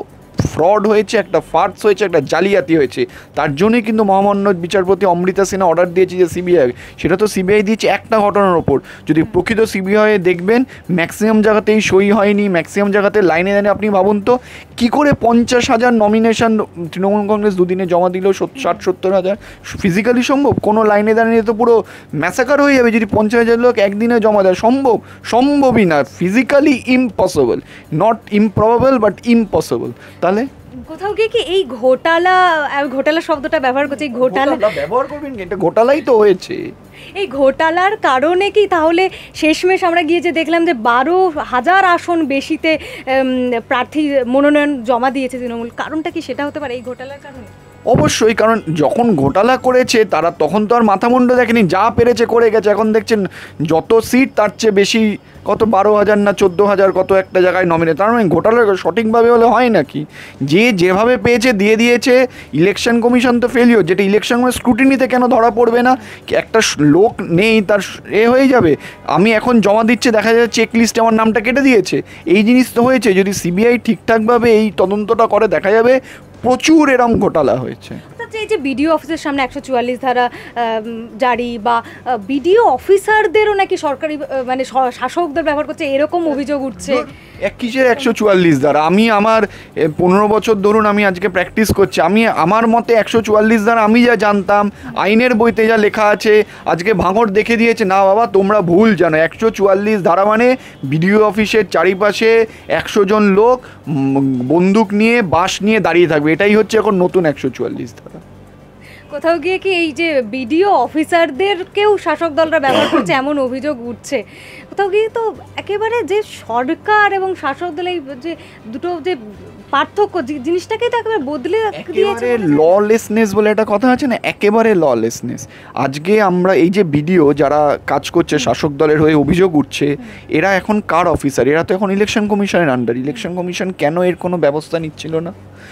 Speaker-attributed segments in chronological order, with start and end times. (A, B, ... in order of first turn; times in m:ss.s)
0:00.4-0:30.5 A
0:30.8-0:34.8 B
0:33.9-0:36.6 A
0:37.1-0:47.5 B
0:47.9-1:18.0 A
1:18.1-1:27.0 B
1:26.8-1:48.2 A
1:49.1-2:02.8 B
2:01.7-2:15.3 A